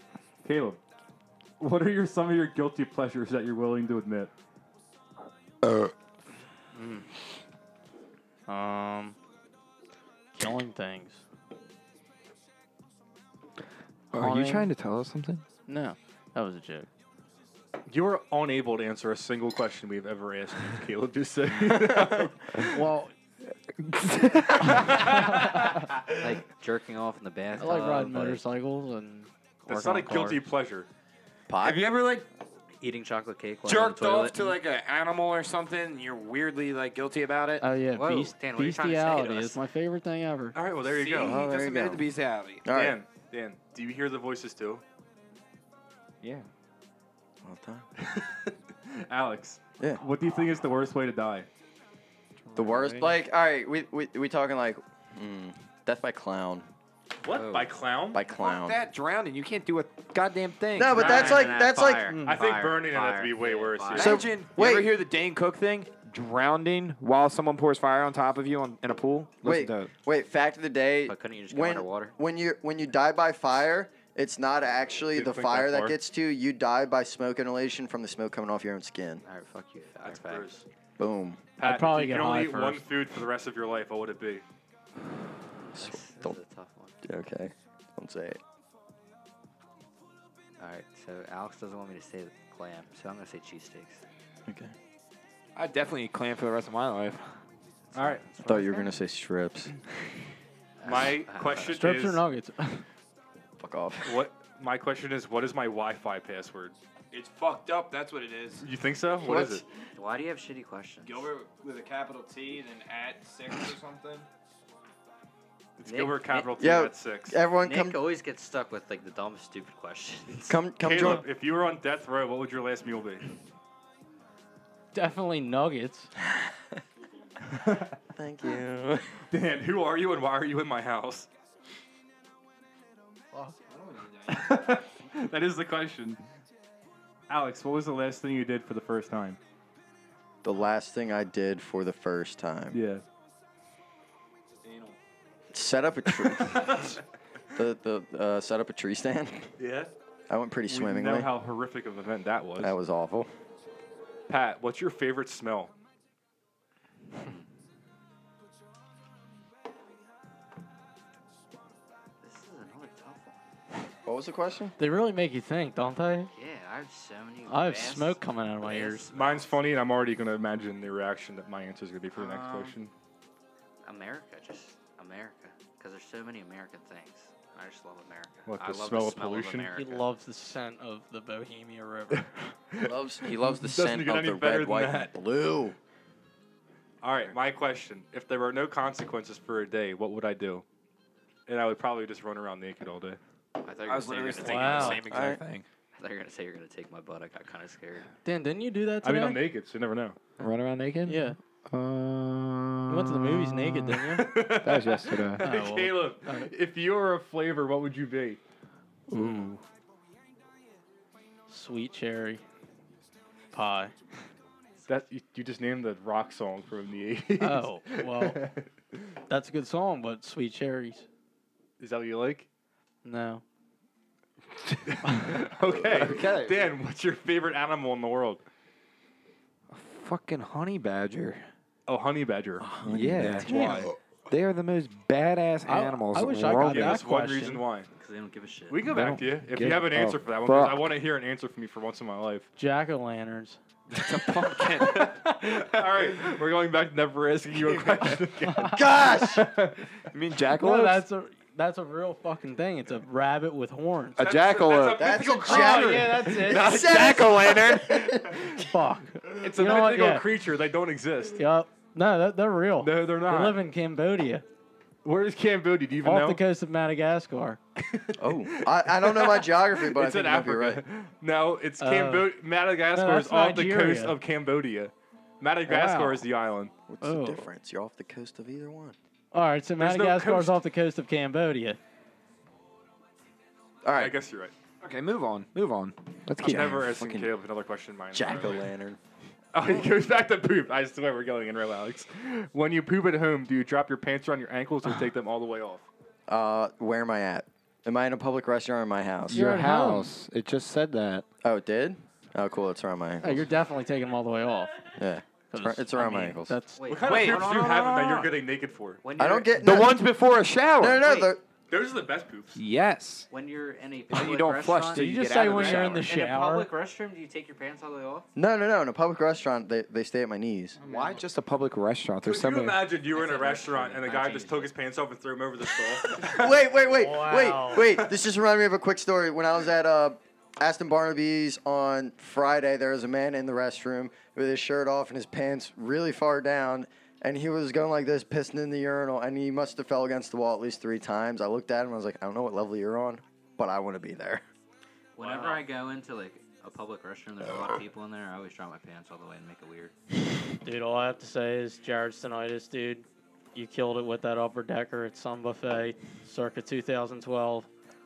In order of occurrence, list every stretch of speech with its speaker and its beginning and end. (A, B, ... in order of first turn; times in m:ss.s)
0:00.4-0:00.8 A
0:01.6-0:04.3 A
0:05.6-0:05.9 B
0:06.7-0:07.1 C
0:08.5-0:09.2 C
0:10.3-0:11.2 C
0:14.1-0:15.4 B
0:14.1-0:14.7 C
0:15.7-0:16.9 C
0:17.9-0:22.7 A
0:21.7-0:22.3 D
0:22.7-0:23.1 C
0:23.7-0:25.4 B
0:24.7-0:25.6 A
0:25.0-0:25.8 C
0:26.1-0:28.4 E
0:27.6-0:30.4 C
0:29.7-0:30.9 A
0:31.5-0:31.8 D
0:31.6-0:32.3 B
0:32.8-0:34.5 E
0:33.6-0:37.6 B
0:37.6-0:40.6 C
0:37.9-0:39.6 E
0:40.5-0:41.4 A
0:40.9-0:42.6 B
0:41.2-0:42.0 D
0:42.6-0:43.0 D
0:42.7-0:44.8 A
0:46.2-0:46.5 B
0:47.4-0:47.8 D
0:48.0-0:51.5 A
0:52.4-0:53.2 B
0:52.6-0:56.7 D
0:57.2-0:58.2 A
0:57.3-0:57.8 E
0:58.1-0:58.8 D
0:58.2-1:01.2 B
1:00.8-1:02.1 D
1:00.9-1:04.2 E
1:00.9-1:01.6 A
1:02.1-1:02.4 C
1:02.2-1:04.2 A
1:03.9-1:04.9 D
1:04.0-1:09.9 B
1:09.4-1:19.2 D
1:11.1-1:12.2 E
1:15.1-1:16.0 A
1:19.2-1:20.5 E
1:20.0-1:20.6 A
1:21.0-1:21.4 D
1:21.6-1:24.4 A
1:21.6-1:22.9 C
1:25.6-1:27.0 E
1:25.7-1:26.4 D
1:27.0-1:28.4 D
1:30.6-1:34.0 E
1:34.5-1:34.7 D
1:35.5-1:37.3 B
1:37.9-1:38.9 E
1:37.9-1:38.3 A
1:38.4-1:39.7 D
1:40.8-1:41.8 E
1:40.8-1:42.2 A
1:41.7-1:42.8 C
1:43.6-1:44.3 D
1:44.0-1:46.8 A
1:47.1-1:48.6 B
1:48.6-1:49.6 A
1:49.2-1:49.6 D
1:50.0-1:51.3 E
1:51.0-1:54.3 B
1:55.8-1:57.4 A
1:55.8-1:56.5 E
1:56.6-1:58.0 D
1:57.6-2:00.6 E
2:00.5-2:01.3 D
2:00.8-2:03.3 A
2:04.9-2:06.1 C
2:07.4-2:08.0 A
2:08.1-2:09.2 D
2:09.3-2:11.3 A
2:13.3-2:13.6 C
2:13.7-2:14.8 B
2:14.3-2:16.2 A
2:17.3-2:19.4 A
2:20.4-2:22.8 D
2:22.7-2:23.0 A
2:24.6-2:25.0 B
2:25.5-2:27.0 D
2:26.2-2:27.0 A
2:27.6-2:29.5 D
2:29.6-2:29.9 A
2:30.3-2:31.3 D
2:30.7-2:32.7 A
2:32.6-2:33.3 D
2:34.3-2:35.7 A
2:42.2-2:43.5 E
2:44.0-2:44.7 D
2:44.8-2:46.3 C
2:46.3-2:49.5 E
2:47.5-2:49.0 C
2:49.1-2:52.9 A
2:52.1-2:52.8 E
2:53.8-3:00.1 E
2:58.4-2:59.7 A
2:59.7-3:02.3 C
3:02.1-3:05.1 A
3:02.8-3:05.8 D
3:07.0-3:10.6 A
3:11.5-3:13.2 A
3:13.6-3:15.3 E
3:13.8-3:15.6 B
3:14.4-3:15.0 C
3:15.1-3:15.4 D
3:15.9-3:18.1 E
3:18.2-3:19.4 C
3:19.0-3:20.2 A
3:20.4-3:23.9 B
3:21.0-3:21.4 C
3:22.9-3:24.3 C
3:24.1-3:28.4 A
3:24.5-3:25.4 B
3:25.4-3:26.5 C
3:29.1-3:29.6 B
3:29.1-3:29.5 C
3:29.1-3:29.5 A
3:31.5-3:32.4 C
3:33.5-3:33.9 C
3:34.9-3:38.7 A
3:37.4-3:38.4 C
3:39.3-3:41.1 C
3:41.8-3:42.5 A
3:43.0-3:43.4 C
3:44.9-3:48.4 A
3:45.0-3:45.3 C
3:45.8-3:46.7 B
3:49.7-3:51.5 B
3:51.9-3:53.9 A
3:52.6-3:53.9 D
3:52.9-3:57.0 B
3:55.6-3:57.6 C
3:56.4-3:57.9 A
3:58.0-3:58.8 E
3:58.7-4:02.5 A
3:58.9-4:00.8 B
4:02.6-4:03.6 C
4:03.9-4:05.6 B
4:04.7-4:09.9 A
4:07.6-4:08.2 B
4:08.4-4:09.0 C
4:08.7-4:09.5 D
4:10.1-4:11.0 B
4:10.6-4:14.2 C
4:14.2-4:18.3 B
4:14.2-4:17.2 A
4:15.0-4:18.6 D
4:15.4-4:16.8 C
4:18.5-4:20.3 C
4:19.4-4:21.4 A
4:21.3-4:24.4 C
4:22.8-4:23.6 A
4:25.0-4:26.4 A
4:26.0-4:27.6 C
4:27.8-4:36.7 A
4:28.2-4:30.8 D
4:31.8-4:32.3 C
4:32.9-4:34.2 C
4:35.6-4:36.2 C
4:36.9-4:39.0 D
4:37.0-4:37.5 C
4:39.3-4:41.8 C
4:39.8-4:40.6 A
4:43.8-4:44.2 D
4:43.9-4:44.5 A
4:44.8-4:46.8 B
4:46.4-4:48.7 A
4:46.4-4:47.4 D
4:48.1-4:49.0 D
4:49.5-4:55.9 A
4:56.3-4:59.4 D
4:59.3-5:01.2 B
4:59.3-5:00.1 C
5:01.4-5:03.5 D
5:03.2-5:04.8 C
5:05.0-5:06.6 D
5:05.5-5:06.9 C
5:06.8-5:08.3 E
5:06.9-5:09.0 A
5:07.0-5:08.3 B
5:09.0-5:09.8 E
5:09.2-5:10.0 D
5:09.6-5:11.1 B
5:10.8-5:11.4 D
5:11.0-5:11.3 E
5:11.7-5:12.6 A
5:12.5-5:13.3 B
5:13.3-5:18.3 E
5:14.1-5:16.1 B
5:14.9-5:16.7 C
5:18.4-5:20.8 D
5:20.8-5:21.2 C
5:20.8-5:22.9 B
5:22.2-5:26.5 A
5:23.1-5:24.7 E
5:26.2-5:44.4 D
5:26.9-5:28.0 C
5:45.2-5:49.9 E
5:45.2-5:45.6 C
5:50.6-5:57.7 C